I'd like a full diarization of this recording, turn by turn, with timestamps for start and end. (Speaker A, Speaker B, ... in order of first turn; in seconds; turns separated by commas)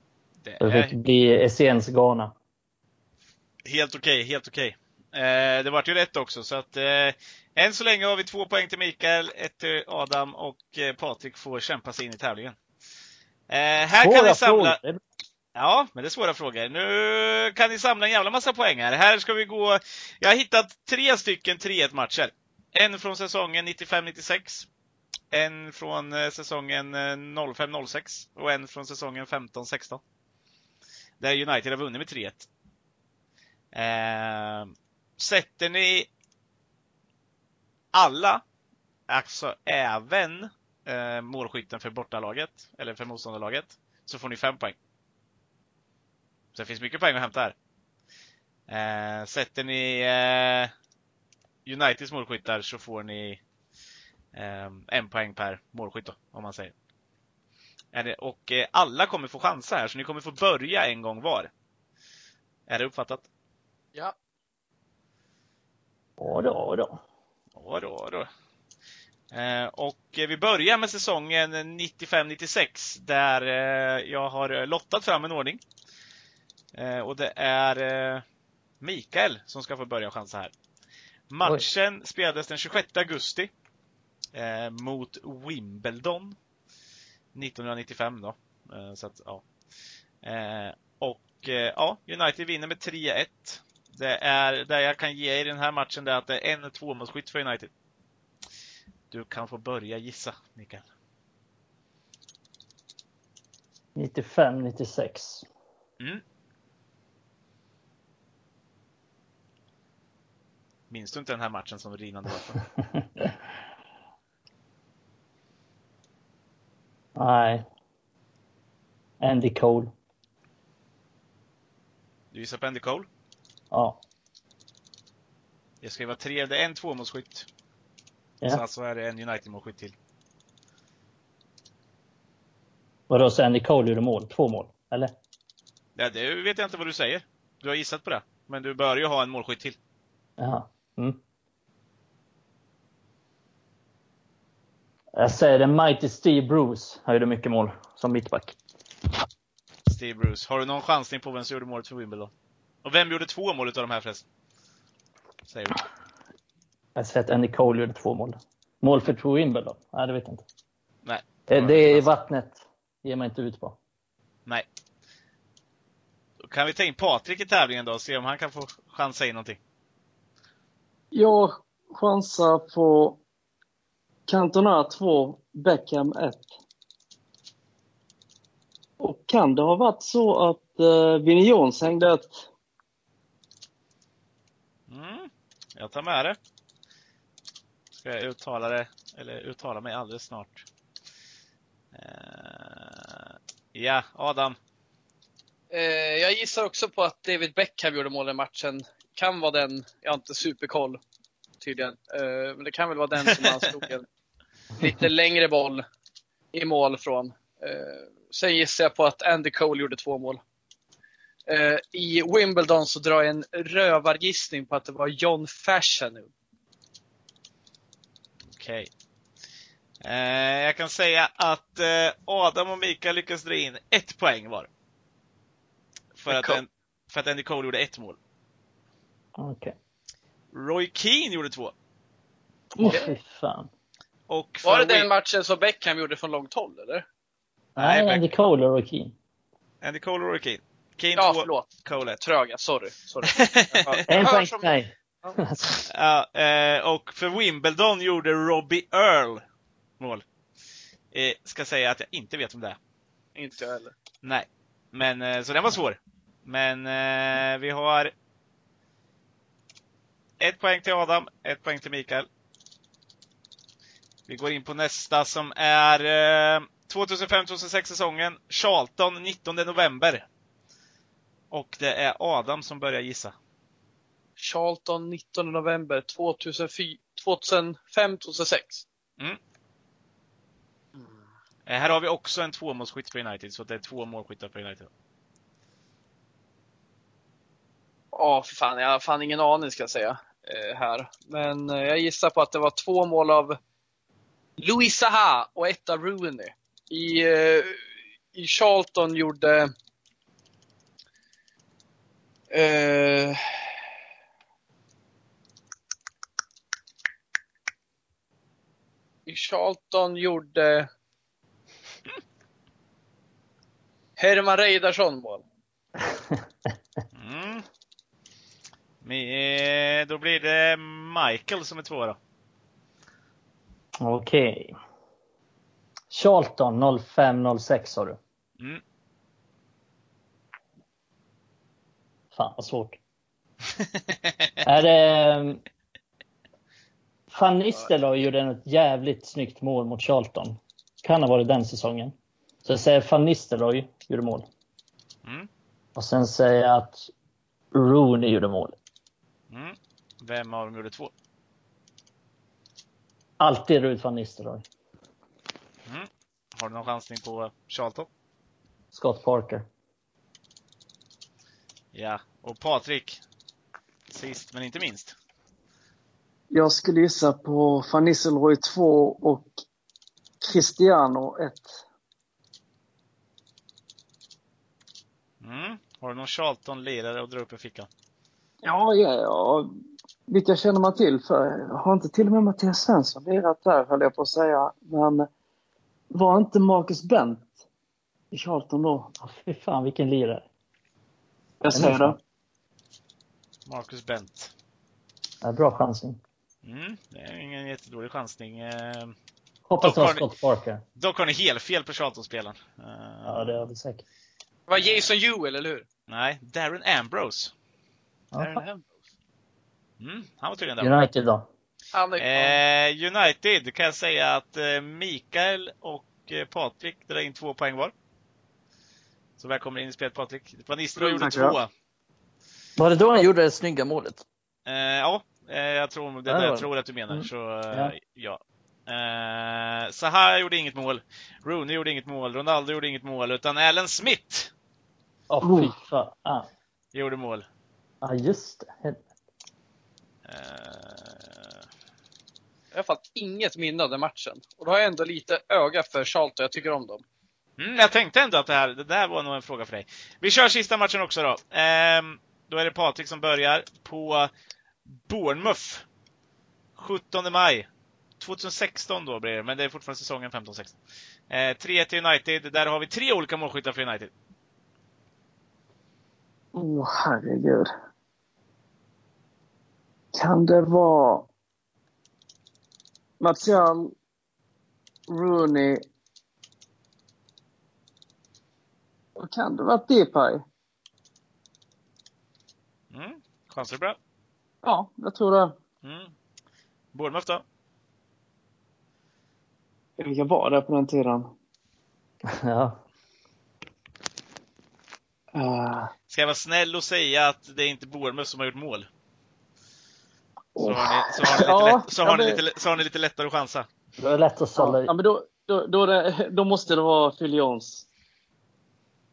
Speaker A: 0.4-0.9, Speaker B: 0.6-2.3, Speaker A: 3.6-12.6, Speaker A: 13.5-14.8, Speaker B: 14.0-15.0, Speaker A: 15.5-24.7, Speaker A: 25.3-30.0, Speaker A: 31.2-32.5, Speaker A: 33.7-36.1, Speaker A: 37.9-38.4, Speaker A: 39.1-44.8, Speaker A: 46.5-47.5, Speaker A: 48.7-50.7, Speaker A: 51.6-53.4, Speaker A: 54.3-56.7, Speaker A: 57.9-61.5, Speaker A: 62.7-63.3, Speaker B: 66.2-67.0, Speaker A: 67.5-68.3, Speaker A: 69.3-75.6, Speaker A: 76.7-78.2, Speaker A: 78.8-80.5, Speaker A: 81.3-83.5, Speaker A: 84.3-86.3, Speaker A: 87.3-89.4, Speaker A: 90.2-97.7, Speaker A: 99.1-100.8, Speaker B: 103.9-105.5, Speaker A: 110.9-112.7, Speaker B: 117.2-117.7, Speaker B: 119.2-119.9, Speaker A: 122.3-123.1, Speaker B: 123.7-124.0, Speaker A: 125.8-127.5, Speaker A: 128.4-129.9, Speaker B: 133.1-135.1, Speaker A: 135.9-139.8, Speaker B: 140.4-141.2, Speaker B: 145.2-148.6, Speaker A: 149.8-152.3, Speaker A: 152.8-154.2, Speaker A: 155.5-155.8, Speaker B: 156.9-160.4, Speaker A: 161.0-162.1, Speaker B: 161.5-163.8, Speaker A: 166.4-169.6, Speaker C: 171.1-173.2, Speaker C: 174.3-176.5, Speaker C: 179.0-182.4, Speaker A: 184.9-186.4, Speaker A: 188.0-190.6, Speaker A: 191.9-194.6, Speaker D: 195.7-201.0, Speaker D: 201.6-204.1, Speaker D: 204.8-205.8, Speaker D: 206.5-210.4, Speaker D: 211.5-216.3, Speaker A: 218.5-218.9, Speaker A: 220.0-224.7, Speaker A: 226.2-228.2, Speaker D: 226.3-226.6, Speaker B: 229.4-229.8, Speaker A: 230.5-231.7, Speaker D: 232.8-233.1, Speaker B: 232.8-233.7, Speaker A: 234.3-235.1, Speaker D: 234.6-237.0, Speaker B: 237.8-239.1, Speaker A: 237.8-238.3, Speaker A: 239.8-242.2, Speaker D: 241.2-241.7, Speaker D: 242.2-244.7, Speaker A: 243.2-244.2, Speaker B: 244.1-245.8, Speaker A: 245.9-249.4, Speaker A: 251.1-252.8, Speaker D: 253.3-253.9, Speaker A: 254.2-258.1, Speaker A: 260.4-262.3, Speaker A: 264.3-270.2, Speaker A: 271.5-273.3, Speaker D: 274.4-278.8, Speaker A: 281.7-284.9, Speaker D: 288.1-293.6, Speaker D: 294.6-297.8, Speaker D: 298.3-299.7, Speaker D: 302.5-303.4, Speaker D: 309.2-310.9, Speaker D: 314.2-315.4, Speaker A: 317.1-317.6, Speaker A: 319.0-322.2, Speaker B: 324.0-324.8, Speaker B: 326.1-328.2, Speaker B: 332.3-333.0, Speaker B: 334.6-335.6, Speaker B: 337.3-342.1, Speaker B: 342.6-344.4, Speaker B: 345.9-347.1, Speaker B: 347.7-348.8, Speaker A: 349.5-351.1, Speaker B: 353.4-354.6, Speaker A: 355.9-358.1, Speaker B: 358.9-359.6, Speaker A: 361.9-363.2, Speaker A: 364.1-365.1, Speaker C: 366.5-369.5, Speaker C: 370.4-371.7, Speaker A: 375.4-377.9, Speaker C: 378.6-379.7, Speaker C: 380.3-385.3, Speaker C: 386.1-387.5, Speaker C: 388.3-389.1, Speaker B: 389.2-390.4, Speaker C: 391.6-392.2, Speaker B: 391.7-392.2, Speaker A: 393.6-394.5, Speaker B: 395.4-396.2, Speaker A: 396.6-399.1, Speaker B: 399.7-400.8, Speaker A: 399.8-400.2, Speaker A: 401.0-403.7, Speaker B: 403.2-404.0, Speaker D: 404.7-405.8, Speaker A: 406.1-407.5, Speaker B: 408.3-408.6, Speaker D: 408.4-408.9, Speaker A: 410.0-411.1, Speaker B: 410.8-411.5, Speaker D: 411.9-412.6, Speaker A: 412.2-417.9, Speaker A: 419.4-421.7, Speaker C: 421.0-421.6, Speaker B: 422.8-424.2, Speaker A: 424.6-434.5, Speaker B: 426.3-427.9, Speaker B: 435.3-436.5, Speaker C: 435.4-435.7, Speaker A: 436.9-437.4, Speaker B: 438.0-439.0, Speaker A: 440.2-441.4, Speaker D: 442.7-447.0, Speaker A: 447.6-454.3, Speaker A: 454.9-455.8, Speaker A: 456.8-457.7, Speaker A: 458.2-460.7, Speaker A: 461.3-464.1, Speaker C: 466.5-467.7, Speaker C: 470.1-471.3, Speaker C: 473.2-473.9, Speaker C: 475.1-475.8, Speaker C: 479.2-480.4, Speaker A: 482.9-484.0, Speaker C: 484.6-485.5, Speaker A: 485.8-486.1, Speaker A: 486.9-487.4, Speaker C: 490.0-491.3, Speaker B: 492.2-492.8, Speaker C: 495.3-495.9, Speaker A: 496.1-498.9, Speaker C: 500.5-502.4, Speaker A: 500.6-503.7, Speaker B: 504.0-504.9, Speaker C: 504.6-507.9